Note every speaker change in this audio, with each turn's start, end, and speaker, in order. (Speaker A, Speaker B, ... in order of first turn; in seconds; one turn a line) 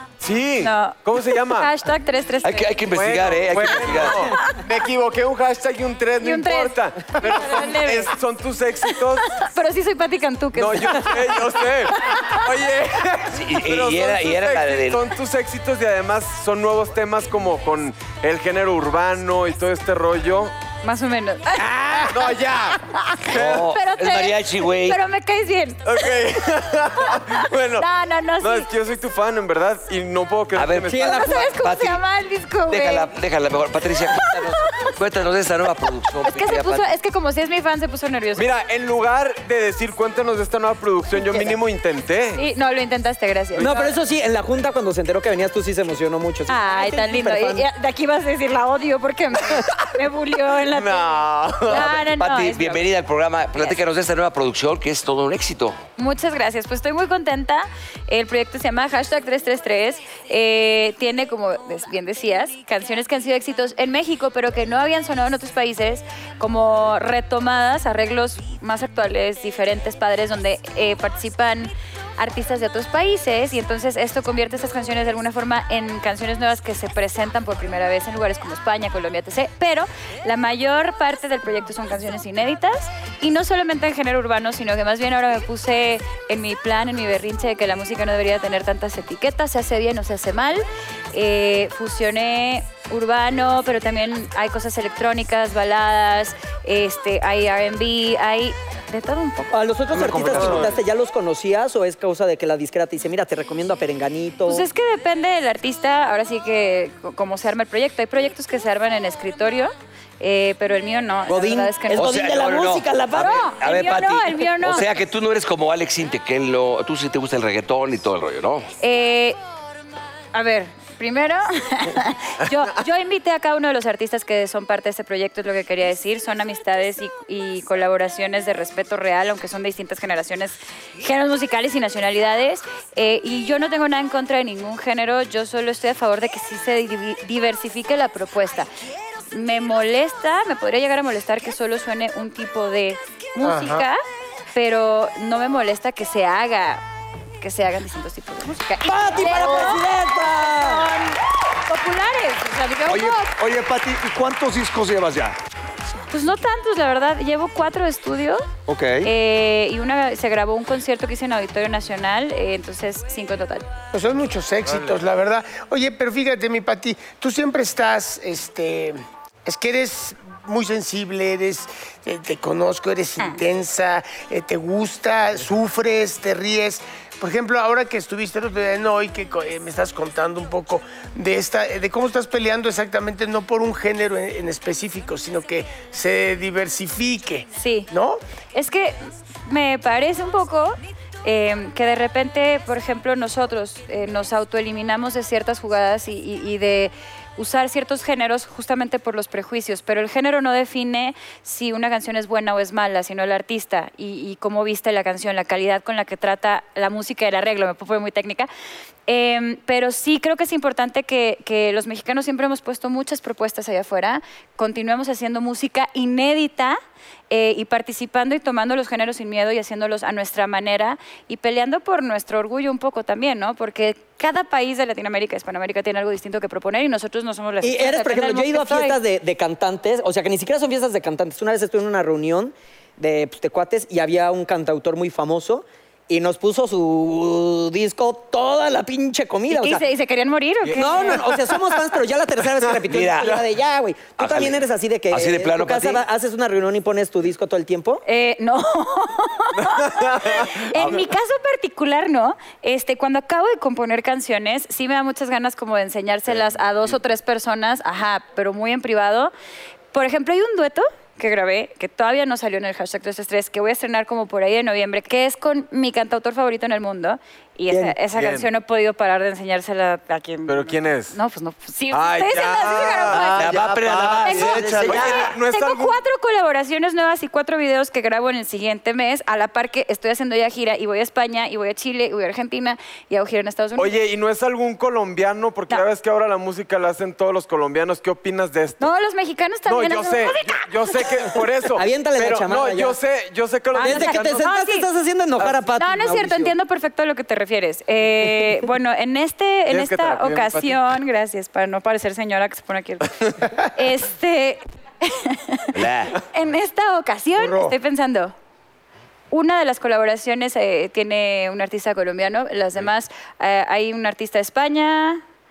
Speaker A: 0.2-1.7
Speaker B: 0.6-2.8
Speaker C: 2.4-4.3
Speaker A: 2.9-9.3
Speaker B: 4.3-4.6
Speaker B: 6.2-8.1
Speaker B: 9.0-12.5
Speaker A: 10.5-20.5
Speaker C: 13.3-15.0
Speaker B: 20.8-22.4
Speaker A: 22.1-23.6
Speaker B: 23.2-26.1
Speaker C: 23.2-25.0
Speaker A: 25.9-27.9
Speaker B: 27.0-28.7
Speaker A: 28.4-31.3
Speaker C: 30.5-32.0
Speaker D: 30.9-31.4
Speaker B: 30.9-33.1
Speaker C: 32.7-36.9
Speaker B: 34.1-34.9
Speaker B: 36.2-38.5
Speaker A: 38.4-42.4
Speaker B: 41.2-41.5
Speaker B: 42.3-43.9
Speaker A: 43.5-43.8
Speaker D: 43.6-47.6
Speaker B: 46.5-52.8
Speaker A: 50.6-52.0
Speaker C: 51.7-55.8
Speaker B: 56.0-99.6
Speaker D: 99.5-104.7
Speaker E: 99.9-100.7
Speaker B: 104.5-112.1
Speaker D: 111.3-113.5
Speaker C: 111.9-118.7
Speaker B: 113.2-115.0
Speaker B: 118.8-119.4
Speaker B: 120.3-138.7
Speaker B: 139.3-144.0
Speaker F: 143.4-143.9
Speaker B: 144.5-146.8
Speaker B: 147.4-153.3
Speaker D: 148.8-150.9
Speaker E: 152.9-155.4
Speaker B: 156.1-158.4
Speaker E: 158.7-159.1
Speaker B: 159.0-163.7
Speaker F: 163.9-188.2
Speaker A: 164.7-165.0
Speaker B: 187.5-187.9
Speaker B: 188.5-208.5
Speaker B: 209.1-216.8
Speaker B: 217.3-229.0
Speaker D: 227.6-239.8
Speaker B: 239.5-241.4
Speaker A: 240.6-241.5
Speaker D: 240.8-248.0
Speaker C: 242.9-243.4
Speaker C: 244.2-246.0
Speaker B: 248.1-259.3
Speaker A: 249.6-251.0
Speaker A: 256.3-256.5
Speaker B: 259.9-273.5
Speaker D: 267.7-268.0
Speaker A: 268.1-268.5
Speaker A: 270.5-271.2
Speaker A: 271.9-276.0
Speaker C: 273.3-275.3
Speaker E: 273.4-275.1
Speaker B: 274.2-284.0
Speaker A: 283.8-288.9
Speaker B: 288.8-291.4
Speaker A: 289.7-294.5
Speaker D: 291.7-293.0
Speaker B: 293.7-294.9
Speaker D: 293.8-296.5
Speaker B: 295.7-303.2
Speaker A: 299.7-300.9
Speaker B: 303.7-308.4
Speaker C: 305.7-306.2
Speaker F: 307.4-307.8
Speaker B: 309.3-315.2